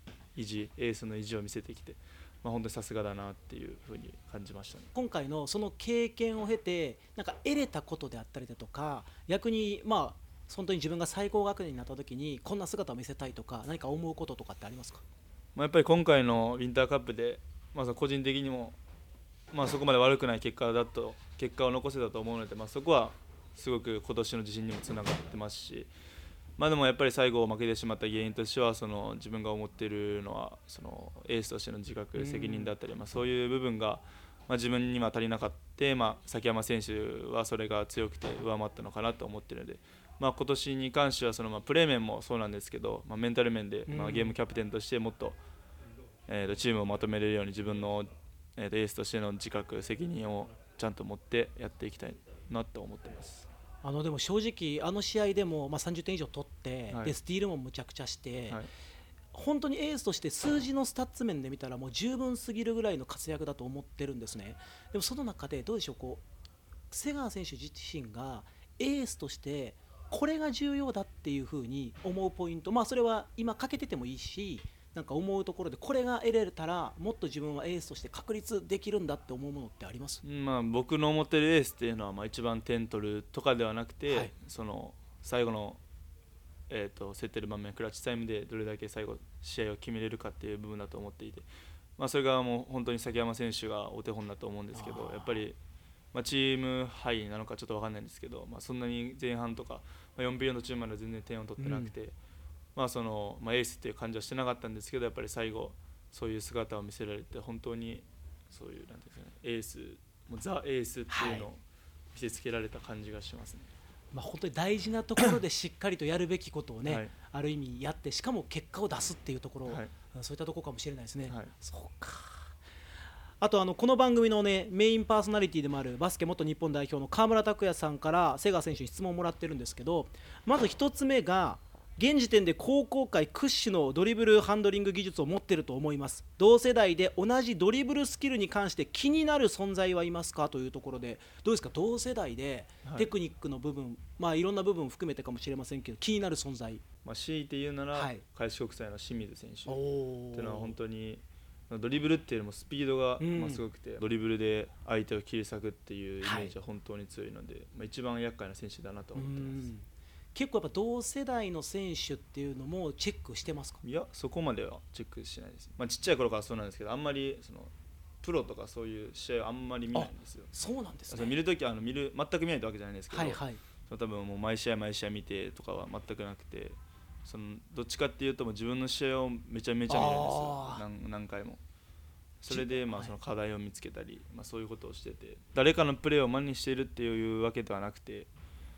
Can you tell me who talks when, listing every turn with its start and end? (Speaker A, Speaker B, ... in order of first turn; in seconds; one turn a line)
Speaker A: 0.3-4.9
Speaker B: 4.9-15.0
Speaker A: 15.6-18.8
Speaker A: 19.5-25.9
Speaker A: 26.6-45.4
Speaker B: 32.1-32.7
Speaker B: 43.9-44.4
Speaker A: 46.3-53.5
Speaker B: 53.8-58.6
Speaker A: 56.9-57.1
Speaker B: 59.3-66.2
Speaker B: 66.9-80.2
Speaker A: 80.2-85.8
Speaker A: 86.7-91.5
Speaker A: 92.0-95.6
Speaker B: 94.7-95.4
Speaker A: 96.1-102.1
Speaker B: 101.6-101.9
Speaker A: 102.8-111.6
Speaker B: 111.1-111.5
Speaker A: 112.1-113.7
Speaker B: 114.1-122.5
Speaker A: 116.8-117.1
Speaker A: 119.7-119.9
Speaker A: 121.3-121.5
Speaker B: 123.4-146.8
Speaker A: 142.8-143.1
Speaker A: 147.0-149.8
Speaker B: 147.9-148.2
Speaker B: 149.7-150.8
Speaker A: 150.3-159.7
Speaker B: 153.2-153.6
Speaker B: 156.2-156.5
Speaker B: 159.1-163.8
Speaker A: 163.8-167.7
Speaker A: 168.2-170.5
Speaker B: 169.9-171.3
Speaker A: 171.1-181.6
Speaker B: 173.1-173.6
Speaker B: 179.9-180.8
Speaker A: 182.4-188.3
Speaker B: 182.5-183.1